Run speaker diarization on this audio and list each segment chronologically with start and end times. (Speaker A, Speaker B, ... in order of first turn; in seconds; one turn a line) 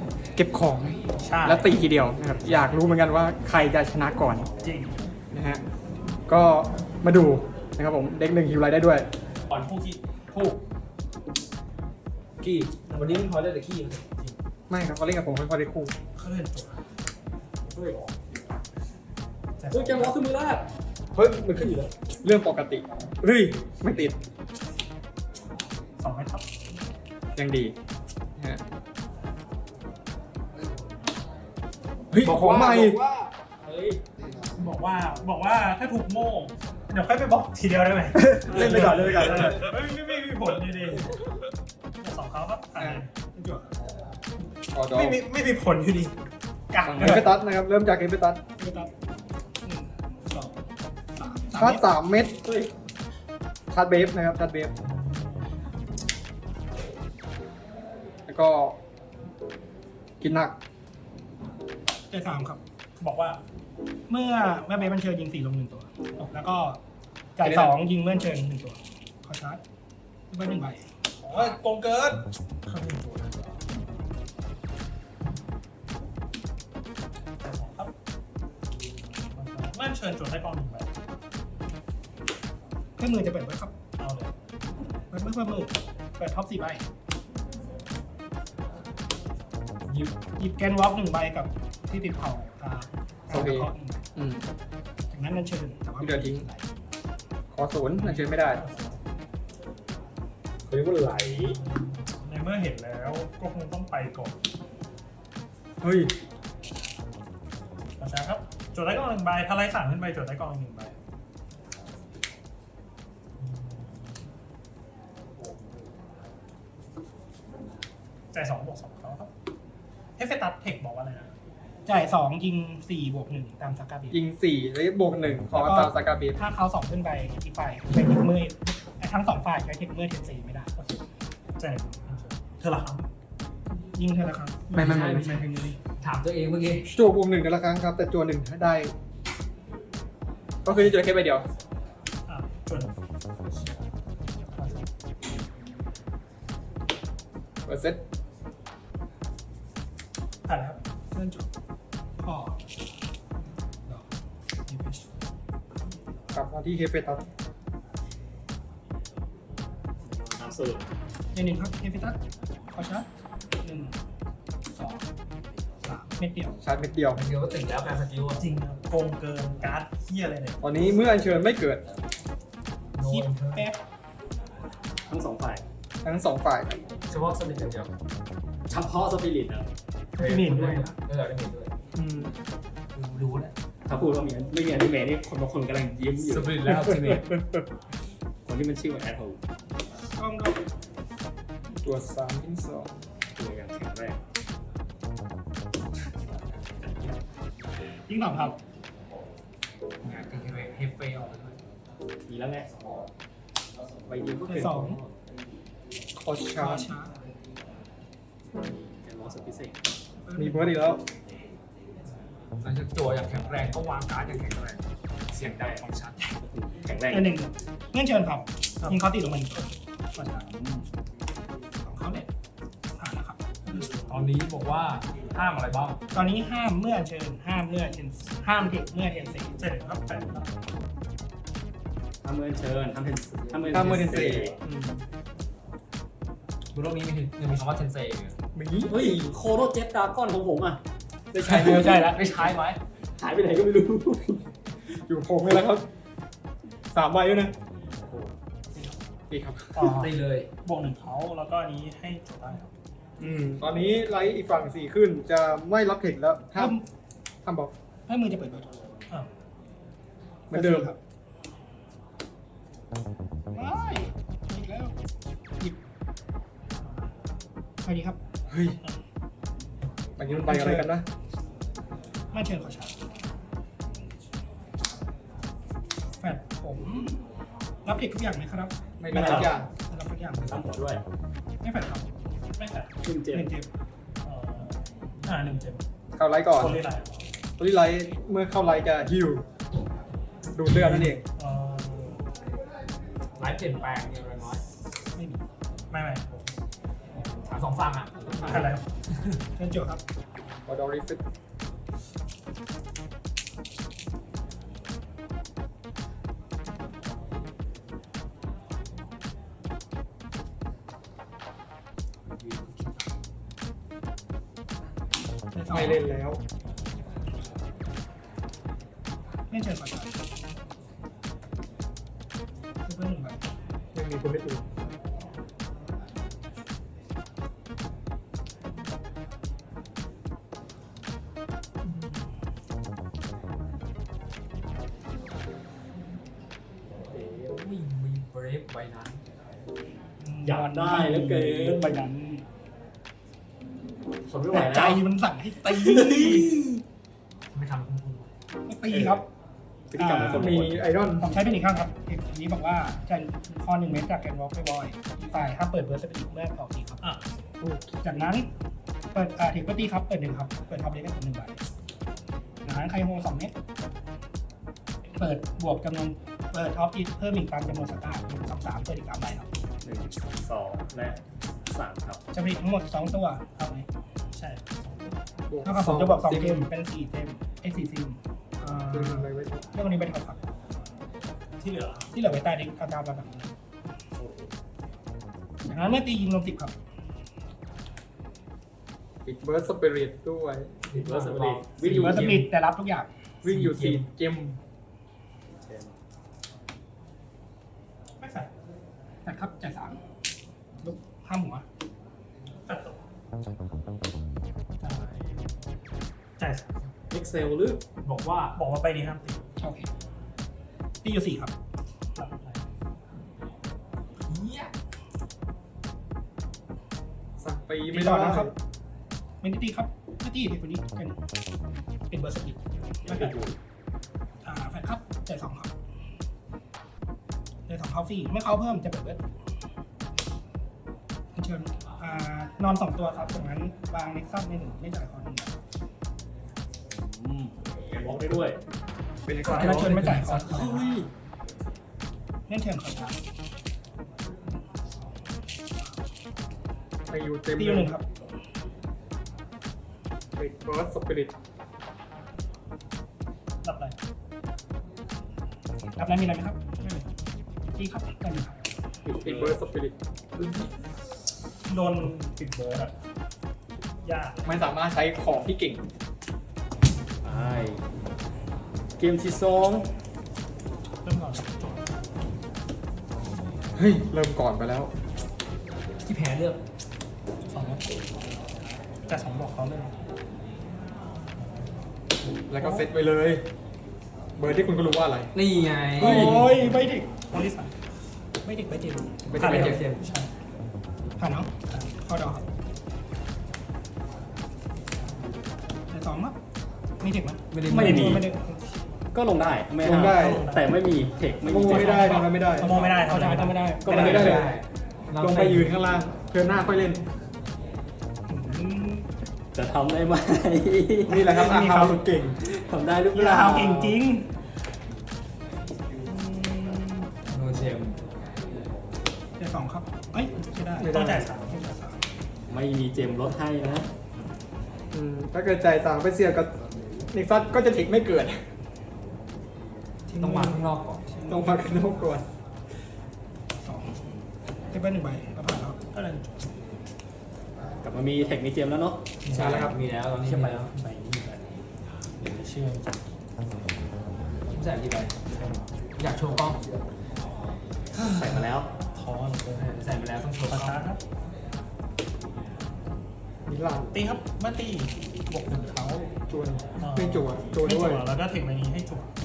Speaker A: 0.4-4.5
Speaker B: 1.2-1.7
Speaker B: 4.6-5.0
Speaker A: 5.3-5.6
Speaker A: 6.3-9.1
Speaker C: 9.5-10.6
Speaker C: 12.4-14.4
Speaker B: 12.9-13.3
Speaker A: 14.7-15.9
Speaker B: 16.2-16.8
Speaker B: 19.6-20.2
Speaker C: 19.7-20.4
Speaker D: 20.0-20.6
Speaker C: 21.1-21.9
Speaker A: 22.2-24.1
Speaker B: 26.0-26.5
Speaker A: 27.4-27.8
Speaker A: 32.1-33.0
Speaker C: 32.2-34.0
Speaker B: 34.6-41.2
Speaker A: 38.1-39.7
Speaker B: 42.0-43.1
Speaker A: 42.8-43.0
Speaker E: 43.3-43.7
Speaker A: 44.7-45.2
Speaker B: 44.9-46.1
Speaker B: 46.7-47.3
Speaker A: 46.8-48.4
Speaker E: 48.6-48.9
Speaker E: 49.6-50.5
Speaker E: 51.1-51.8
Speaker A: 51.5-52.3
Speaker D: 52.4-52.7
Speaker A: 53.7-54.7
Speaker A: 58.3-58.8
Speaker A: 60.2-60.6
Speaker E: 62.1-62.6
Speaker B: 63.0-63.4
Speaker E: 64.1-66.8
Speaker E: 67.4-69.6
Speaker A: 67.4-67.7
Speaker E: 70.3-71.6
Speaker B: 71.2-73.4
Speaker B: 77.4-77.9
Speaker B: 79.3-80.9
Speaker E: 83.0-83.7
Speaker B: 84.0-84.3
Speaker E: 85.1-86.9
Speaker E: 90.4-94.0
Speaker A: 93.3-94.5
Speaker E: 95.1-96.6
Speaker A: 96.0-96.5
Speaker A: 97.5-98.6
Speaker B: 98.0-99.0
Speaker C: 100.7-101.6
Speaker B: 101.0-104.4
Speaker A: 105.8-106.1
Speaker B: 108.0-111.0
Speaker B: 118.3-119.3
Speaker B: 120.2-121.3
Speaker E: 121.9-124.2
Speaker A: 124.1-126.4
Speaker E: 125.5-130.7
Speaker B: 131.6-133.1
Speaker E: 133.9-135.8
Speaker A: 134.7-135.5
Speaker C: 134.8-136.9
Speaker A: 136.9-138.9
Speaker A: 140.6-141.5
Speaker B: 142.3-142.9
Speaker B: 144.6-144.8
Speaker A: 147.7-148.0
Speaker B: 150.5-150.8
Speaker E: 151.1-151.5
Speaker E: 152.2-152.6
Speaker E: 154.7-155.1
Speaker A: 156.3-157.2
Speaker D: 160.1-160.9
Speaker E: 161.3-162.2
Speaker E: 162.7-163.1
Speaker E: 163.6-164.0
Speaker E: 164.7-165.1
Speaker E: 165.8-166.6
Speaker A: 166.6-167.2
Speaker C: 167.2-168.4
Speaker B: 168.4-170.6
Speaker A: 170.6-171.8
Speaker C: 172.9-173.7
Speaker E: 173.0-173.8
Speaker D: 175.1-175.6
Speaker A: 176.0-176.8
Speaker C: 177.1-177.9
Speaker D: 178.7-179.7
Speaker E: 180.2-180.9
Speaker C: 180.2-181.7
Speaker A: 181.9-182.3
Speaker C: 183.0-183.5
Speaker D: 183.9-186.6
Speaker C: 186.2-187.3
Speaker A: 187.1-187.4
Speaker D: 188.4-189.4
Speaker E: 190.2-190.6
Speaker A: 191.8-192.9
Speaker D: 193.4-194.2
Speaker E: 198.1-198.6
Speaker C: 200.0-201.6
Speaker D: 202.3-202.7
Speaker D: 204.1-205.1
Speaker C: 204.4-204.9
Speaker E: 204.5-205.0
Speaker A: 206.2-206.9
Speaker E: 206.6-207.2
Speaker D: 208.9-209.8
Speaker E: 210.2-210.8
Speaker A: 210.4-211.0
Speaker C: 212.6-216.4
Speaker D: 216.4-217.3
Speaker E: 217.1-220.5
Speaker E: 221.8-222.3
Speaker E: 222.9-223.4
Speaker C: 224.1-226.0
Speaker E: 226.1-229.6
Speaker B: 229.6-230.5
Speaker D: 232.2-234.6
Speaker A: 233.7-235.1
Speaker C: 236.7-238.4
Speaker A: 238.6-239.3
Speaker D: 238.9-240.8
Speaker D: 241.3-242.1
Speaker C: 241.4-242.8
Speaker D: 243.2-244.4
Speaker A: 245.0-245.8
Speaker A: 246.9-247.5
Speaker A: 249.3-249.9
Speaker B: 249.8-250.1
Speaker C: 250.0-250.5
Speaker B: 250.6-252.7
Speaker A: 253.2-256.8
Speaker E: 256.6-256.9
Speaker A: 257.4-257.7
Speaker E: 258.1-258.7
Speaker A: 260.5-260.9
Speaker E: 260.5-261.0
Speaker E: 263.5-265.0
Speaker E: 267.8-268.2
Speaker A: 268.5-268.8
Speaker A: 270.2-271.1
Speaker E: 270.4-270.9
Speaker E: 272.3-273.0
Speaker E: 276.2-277.2
Speaker E: 277.9-280.7
Speaker A: 279.0-279.7
Speaker D: 279.1-279.5
Speaker D: 280.5-281.0
Speaker E: 281.6-282.1
Speaker B: 282.6-282.9
Speaker D: 283.0-283.5
Speaker E: 283.3-283.7
Speaker B: 284.2-285.8
Speaker A: 286.2-286.8
Speaker B: 286.6-287.2
Speaker A: 287.6-289.4
Speaker A: 290.6-291.2
Speaker B: 290.7-292.2
Speaker C: 293.4-294.6
Speaker E: 295.1-295.4
Speaker B: 295.9-296.5
Speaker C: 297.4-298.7
Speaker D: 298.3-298.7
Speaker B: 298.5-298.9
Speaker E: 299.6-300.0
Speaker A: 300.7-301.2
Speaker C: 312.4-313.0
Speaker E: 315.5-316.0
Speaker A: 315.7-316.4
Speaker E: 319.5-320.2
Speaker E: 322.9-323.4
Speaker A: 323.9-324.7
Speaker D: 337.1-337.5
Speaker C: 337.5-339.2
Speaker E: 340.2-342.5
Speaker D: 340.4-342.1
Speaker D: 344.3-345.0
Speaker E: 344.5-346.5
Speaker D: 345.6-346.8
Speaker C: 347.5-348.3
Speaker E: 348.7-349.2
Speaker D: 348.9-349.2
Speaker D: 349.9-350.8
Speaker E: 350.0-350.5
Speaker A: 350.1-351.4
Speaker E: 351.2-357.1
Speaker A: 357.6-357.9
Speaker E: 358.0-358.5
Speaker E: 359.1-361.6
Speaker E: 362.6-363.5
Speaker E: 365.1-369.5
Speaker D: 369.8-372.2
Speaker E: 372.3-373.8
Speaker B: 373.6-375.1
Speaker A: 375.5-376.6
Speaker E: 375.6-380.4
Speaker A: 378.9-379.6
Speaker B: 381.6-382.1
Speaker E: 382.1-383.5
Speaker D: 384.2-384.5
Speaker E: 385.6-386.8
Speaker A: 389.2-390.8
Speaker C: 390.9-392.5
Speaker D: 390.9-392.4
Speaker E: 391.9-393.1
Speaker A: 393.4-394.6
Speaker C: 393.4-394.0
Speaker D: 395.6-395.9
Speaker B: 398.2-398.5
Speaker E: 399.2-400.0
Speaker E: 400.8-401.6
Speaker B: 402.7-403.0
Speaker B: 404.8-405.3
Speaker B: 406.4-406.8
Speaker D: 407.1-407.8
Speaker C: 408.0-408.6
Speaker B: 408.6-409.4
Speaker E: 409.6-409.9
Speaker E: 411.0-411.5
Speaker B: 412.1-412.6
Speaker C: 414.3-414.7
Speaker A: 417.4-418.6
Speaker E: 417.9-418.5
Speaker E: 419.4-421.2
Speaker E: 422.1-423.4
Speaker D: 423.1-423.6
Speaker E: 424.4-425.7
Speaker E: 427.7-429.2
Speaker E: 431.3-435.6
Speaker D: 436.9-438.6
Speaker A: 439.3-439.9
Speaker C: 439.4-440.9
Speaker E: 439.4-440.9
Speaker D: 440.4-441.1
Speaker E: 442.5-443.2
Speaker A: 447.1-447.9
Speaker E: 447.6-448.1
Speaker A: 450.4-451.3
Speaker B: 453.6-454.0
Speaker E: 456.0-456.6
Speaker B: 456.8-457.1
Speaker E: 457.8-458.6
Speaker D: 459.1-459.6
Speaker A: 459.1-459.9
Speaker B: 461.7-462.9
Speaker B: 464.0-464.7
Speaker A: 464.4-465.8
Speaker D: 467.2-467.8
Speaker D: 469.0-469.9
Speaker B: 471.0-471.9
Speaker A: 473.8-474.9
Speaker C: 476.0-476.6
Speaker B: 477.5-477.9
Speaker B: 479.1-479.9
Speaker A: 482.5-483.4
Speaker A: 484.4-485.3
Speaker C: 485.4-486.5
Speaker E: 486.0-487.1
Speaker A: 486.0-486.4
Speaker B: 487.3-487.7
Speaker E: 488.4-489.1
Speaker A: 489.3-489.8
Speaker C: 489.4-490.0
Speaker B: 489.4-490.3
Speaker E: 491.2-492.4
Speaker E: 495.9-496.4
Speaker E: 497.0-498.8
Speaker C: 497.5-498.3
Speaker D: 497.8-498.1
Speaker D: 499.1-502.2
Speaker A: 499.8-500.5
Speaker B: 500.1-500.7
Speaker A: 501.4-502.7
Speaker B: 501.7-503.7
Speaker E: 502.1-504.5
Speaker C: 503.9-505.7
Speaker A: 503.9-504.6
Speaker D: 503.9-504.3
Speaker A: 505.2-507.0
Speaker E: 508.3-509.1
Speaker D: 509.5-511.5
Speaker A: 511.1-512.4
Speaker E: 511.2-512.0
Speaker D: 512.4-514.0
Speaker E: 513.1-514.3
Speaker E: 516.0-517.1
Speaker C: 517.3-518.0
Speaker E: 519.4-522.0
Speaker A: 520.8-521.3
Speaker B: 520.9-521.5
Speaker D: 522.5-523.9
Speaker A: 524.9-526.5
Speaker A: 527.1-528.4
Speaker E: 530.1-531.5
Speaker C: 530.2-531.1
Speaker A: 531.2-532.2
Speaker E: 533.6-534.0
Speaker E: 534.7-535.8
Speaker B: 535.9-536.5
Speaker D: 537.8-539.0
Speaker B: 539.3-539.7
Speaker A: 539.3-539.8
Speaker C: 539.3-540.7
Speaker D: 540.2-540.7
Speaker B: 540.3-541.4
Speaker B: 542.2-543.0
Speaker C: 544.5-546.6
Speaker B: 548.0-549.7
Speaker D: 548.1-548.7
Speaker C: 549.5-550.9
Speaker B: 550.5-551.0
Speaker A: 553.5-553.9
Speaker B: 553.9-556.1
Speaker A: 556.3-558.0
Speaker B: 556.8-559.1